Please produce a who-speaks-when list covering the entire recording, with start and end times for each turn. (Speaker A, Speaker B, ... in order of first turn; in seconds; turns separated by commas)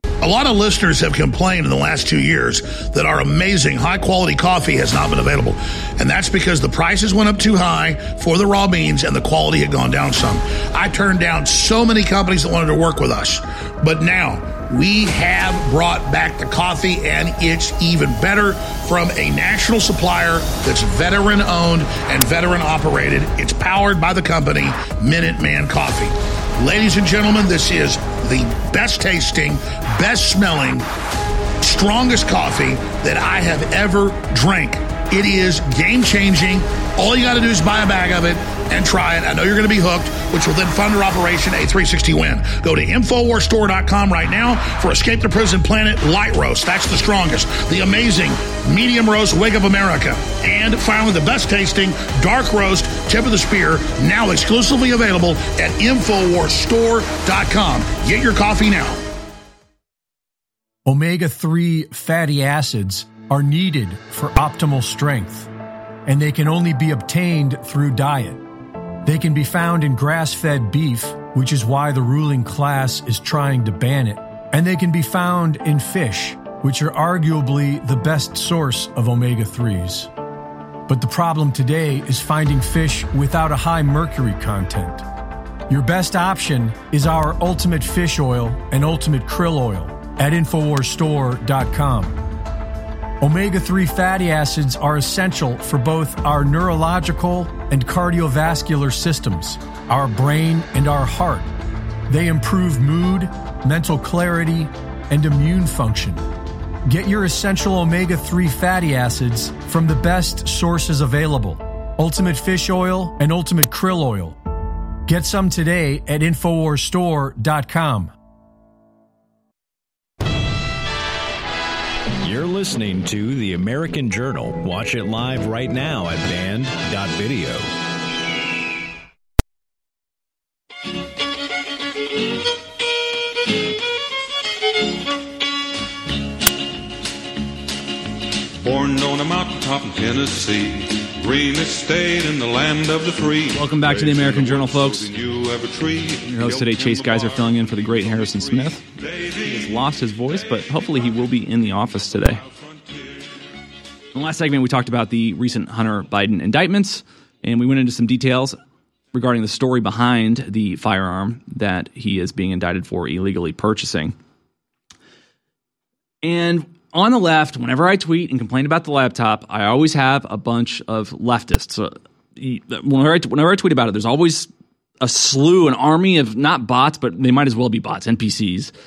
Speaker A: 0.2-30.9, Speaker A: 31.6-59.0, Speaker B: 60.9-65.5, Speaker B: 66.1-68.4, Speaker B: 69.0-80.1, Speaker B: 80.9-85.0, Speaker B: 85.7-92.2, Speaker B: 93.2-101.5, Speaker B: 102.1-106.3, Speaker B: 106.9-114.4, Speaker B: 115.1-118.1, Speaker C: 122.2-127.7, Speaker D: 138.6-151.1, Speaker E: 143.5-145.1, Speaker E: 146.3-148.9, Speaker E: 149.4-152.4, Speaker D: 152.5-153.2, Speaker E: 154.1-158.6, Speaker E: 159.1-164.1, Speaker E: 166.2-174.5, Speaker E: 175.0-178.7